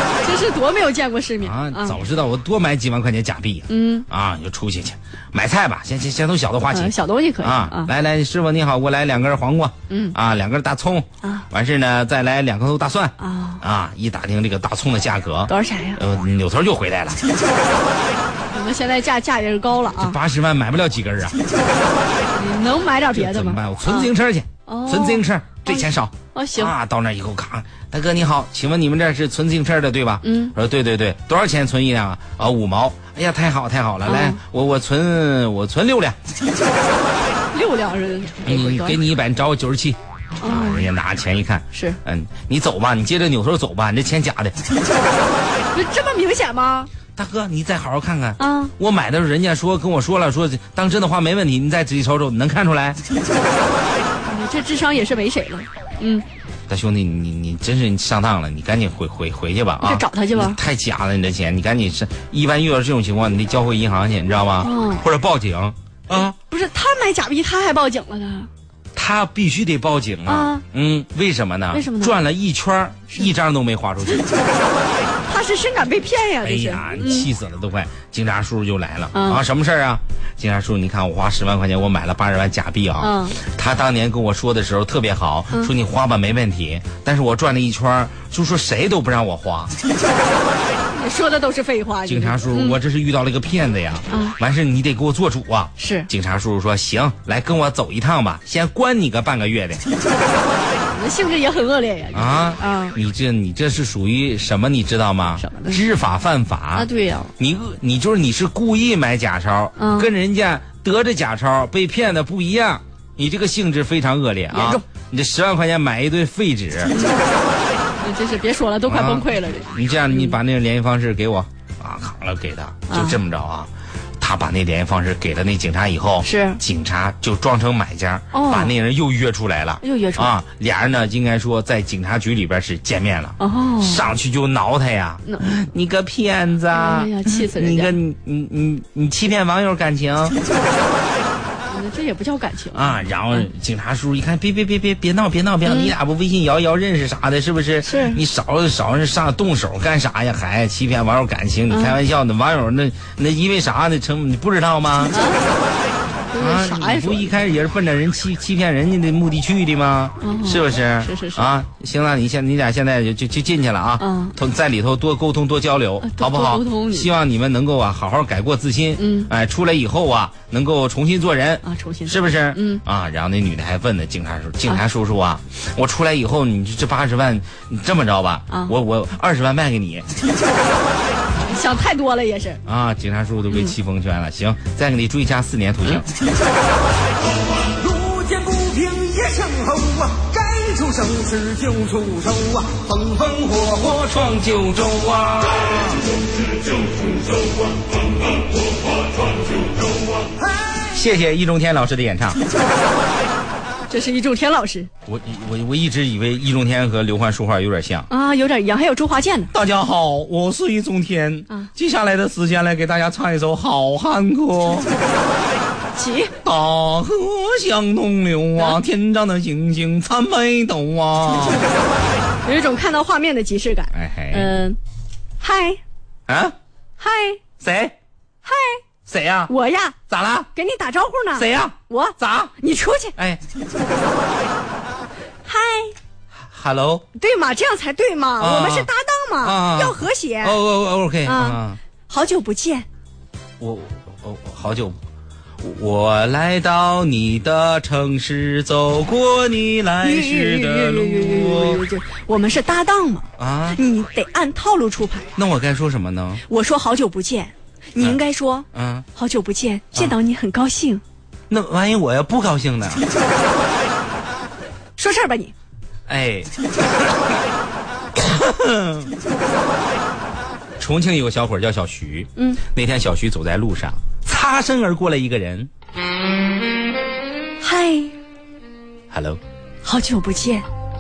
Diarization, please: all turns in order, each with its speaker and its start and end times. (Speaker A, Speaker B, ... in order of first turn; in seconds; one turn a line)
Speaker A: 0.2-2.0
Speaker B: 1.4-17.2
Speaker A: 3.7-4.1
Speaker A: 6.7-7.9
Speaker A: 9.9-10.2
Speaker A: 11.2-11.5
Speaker A: 13.2-13.6
Speaker A: 15.5-16.0
Speaker A: 18.5-20.2
Speaker B: 20.0-21.4
Speaker A: 22.3-24.1
Speaker B: 23.1-36.2
Speaker A: 24.7-26.7
Speaker A: 30.2-30.5
Speaker A: 34.0-34.4
Speaker A: 37.5-39.0
Speaker B: 38.5-44.6
Speaker A: 40.4-40.9
Speaker A: 41.7-42.0
Speaker A: 45.7-46.9
Speaker B: 47.2-53.0
Speaker A: 48.4-48.7
Speaker A: 54.2-56.2
Speaker B: 56.7-66.3
Speaker A: 59.8-60.6
Speaker A: 64.6-65.0
Speaker A: 66.1-68.5
Speaker B: 69.0-74.3
Speaker A: 70.3-70.6
Speaker A: 71.7-72.2
Speaker A: 75.3-77.3
Speaker B: 76.4-89.7
Speaker A: 79.1-79.4
Speaker A: 83.0-83.4
Speaker A: 90.9-92.8
Speaker B: 92.1-99.8
Speaker A: 94.1-94.4
Speaker A: 95.8-96.1
Speaker A: 100.4-103.0
Speaker B: 102.1-106.9
Speaker A: 105.4-105.8
Speaker A: 106.8-107.3
Speaker B: 107.4-117.0
Speaker A: 109.8-110.1
Speaker A: 114.5-114.8
Speaker A: 116.9-117.3
Speaker A: 118.0-120.3
Speaker B: 118.9-140.4
Speaker A: 122.9-123.2
Speaker A: 126.2-126.6
Speaker A: 128.3-128.7
Speaker A: 129.8-130.3
Speaker A: 133.4-134.0
Speaker A: 136.7-138.0
Speaker A: 141.7-143.5
Speaker B: 142.7-155.2
Speaker A: 145.7-145.9
Speaker A: 147.8-148.2
Speaker A: 151.7-152.0
Speaker A: 155.1-155.5
Speaker A: 156.3-157.3
Speaker B: 156.4-180.1
Speaker A: 160.2-161.5
Speaker A: 164.0-164.4
Speaker A: 166.0-167.1
Speaker A: 169.0-169.3
Speaker A: 171.6-172.8
Speaker A: 178.5-178.8
Speaker A: 181.4-182.6
Speaker B: 182.7-186.1
Speaker C: 188.0-192.5
Speaker B: 191.4-196.1
Speaker B: 200.8-202.4
Speaker A: 203.9-204.9
Speaker B: 205.1-208.1
Speaker A: 208.1-209.5
Speaker B: 209.5-214.9
Speaker A: 215.9-216.3
Speaker B: 216.4-221.7
Speaker A: 222.4-224.8
Speaker B: 223.9-224.5
Speaker A: 225.4-225.8
Speaker B: 226.3-226.6
Speaker A: 227.0-227.4
Speaker B: 227.6-227.9
Speaker A: 228.4-228.8
Speaker B: 229.1-229.5
Speaker A: 229.5-230.0
Speaker B: 230.1-230.5
Speaker A: 230.5-233.2
Speaker B: 231.4-232.5
Speaker B: 233.2-233.4
Speaker A: 235.4-235.9
Speaker B: 236.5-237.1
Speaker A: 237.2-240.6
Speaker B: 238.4-238.9
Speaker B: 239.4-241.8
Speaker A: 241.2-242.9
Speaker B: 243.6-245.0
Speaker B: 245.6-251.8
Speaker A: 250.0-255.3
Speaker B: 253.4-253.8
Speaker B: 255.4-256.4
Speaker A: 256.5-261.0
Speaker B: 258.7-259.1
Speaker B: 261.5-263.1
Speaker A: 265.0-265.5
Speaker B: 266.1-267.4
Speaker B: 268.1-269.1
Speaker B: 270.8-275.7
Speaker A: 277.6-278.1
Speaker B: 279.1-279.4
Speaker A: 279.8-280.7